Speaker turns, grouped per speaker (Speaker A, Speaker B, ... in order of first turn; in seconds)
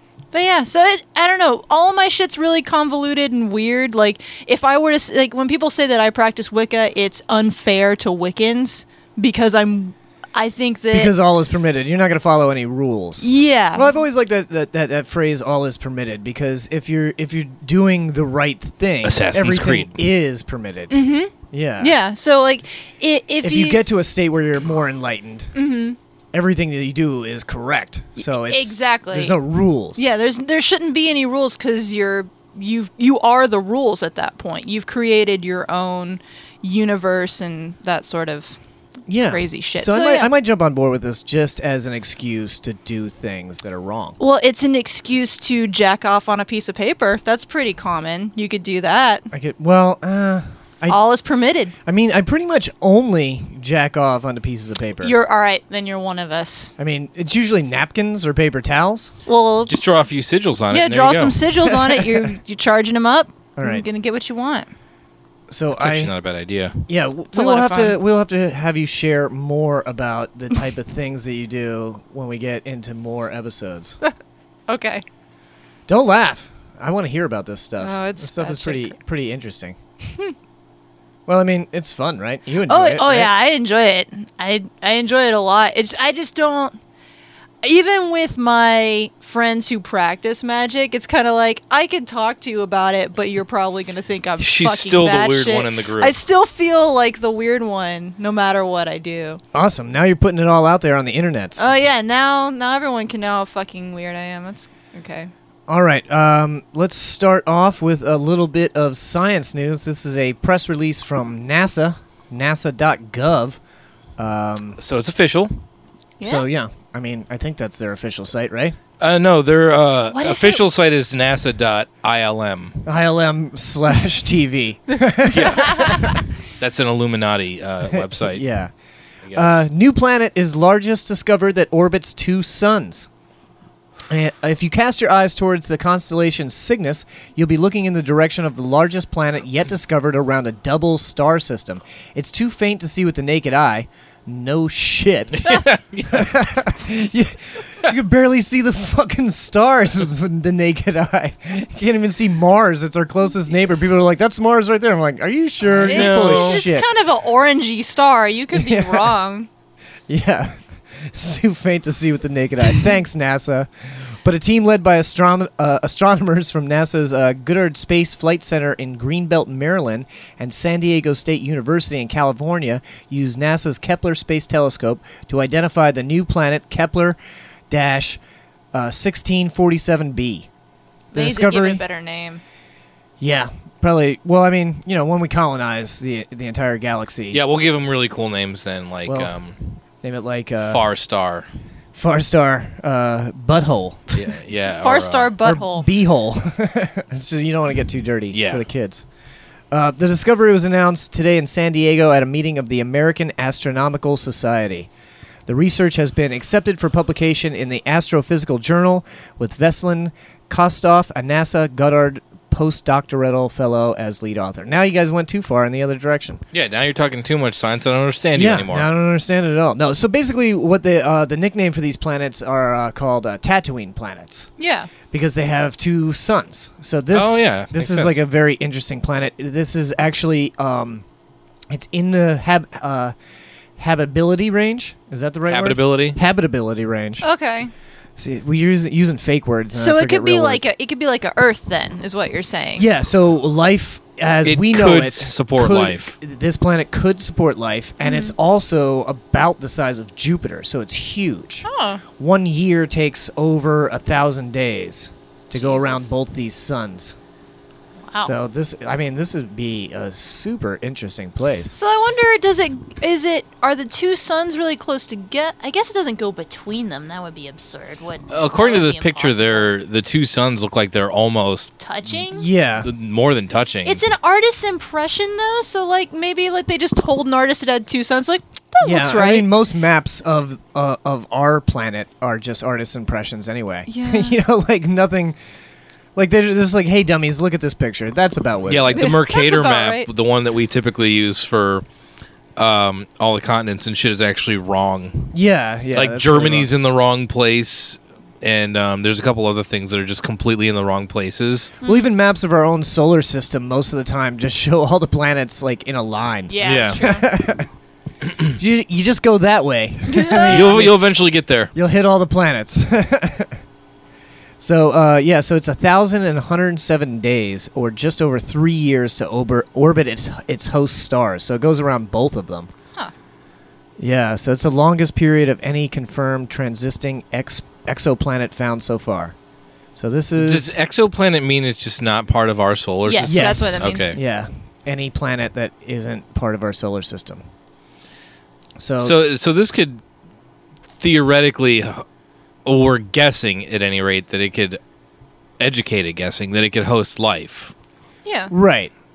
Speaker A: 0.3-11.1, 13.2-14.0, 20.9-23.8, 25.5-26.0, 28.2-29.4, 29.9-38.6, 39.3-40.3, 44.2-49.3, 50.9-51.8, 55.0-56.7, 59.3-59.8, 60.7-64.7, 67.3-68.0, 74.7-75.0, 77.8-79.0, 82.7-86.8, 87.6-99.4, 101.6-105.3, 116.2-116.5, 120.1-120.6, 125.6-126.1, 155.8-159.5, 181.1-182.4, 194.7-195.9, 224.6-224.9, 237.2-237.7, 239.7-242.8, 248.0-248.3, 251.6-252.0, 255.5-256.1, 261.7-269.7, 271.8-272.5, 273.8-279.5, 283.9-284.4, 289.0-290.1, 301.8-302.1, 306.5-307.3, 310.1-310.9, 333.1-334.2, 348.2-348.5
Speaker B: 10.9-21.0, 21.5-21.9, 23.4-25.5, 26.3-30.0, 39.1-44.2, 49.3-51.0, 51.9-55.1, 56.8-59.1, 61.6-62.3, 63.5-63.9, 65.5-66.1, 66.9-74.0, 75.9-79.8, 81.3-83.3, 99.5-101.7, 105.7-113.6, 114.2-114.8, 116.2-118.8, 122.8-126.2, 127.9-128.7, 129.3-133.1, 134.1-156.8, 158.5-159.1, 160.1-177.2, 177.7-178.2, 178.7-180.5, 181.1-181.8, 183.2-187.4, 189.1-189.4, 190.0-190.8, 191.9-194.0, 195.4-199.0, 199.7-204.9, 205.5-216.4, 218.3-224.5, 225.1-231.0, 231.7-233.1, 233.8-237.2, 238.2-240.6, 242.8-251.7, 252.2-257.2, 258.2-261.7, 272.1-272.9, 278.8-285.4, 286.1-289.1, 295.3-296.7, 301.8-307.7, 308.6-311.0, 311.7-313.6, 314.6-322.7, 324.0-329.3, 329.9-330.7, 333.3-337.4, 338.8-339.2, 348.5-348.9
Speaker C: 19.0-20.0, 59.7-61.4, 65.8-66.8, 94.4-96.1, 114.8-115.6, 119.0-122.8, 125.3-126.0, 126.6-128.4, 129.3-129.6, 145.3-146.3, 155.7-156.6, 187.3-189.6, 190.6-191.5, 194.1-195.3, 198.3-198.6, 216.5-218.9, 227.1-228.2, 235.4-236.2, 244.4-246.1, 268.3-271.7, 272.8-274.0, 288.7-291.8, 292.6-295.3, 295.9-301.7, 306.6-307.1, 308.3-308.5, 310.5-311.7, 330.4-334.2, 339.0-340.0, 341.0-342.0, 342.6-344.8, 345.6-347.7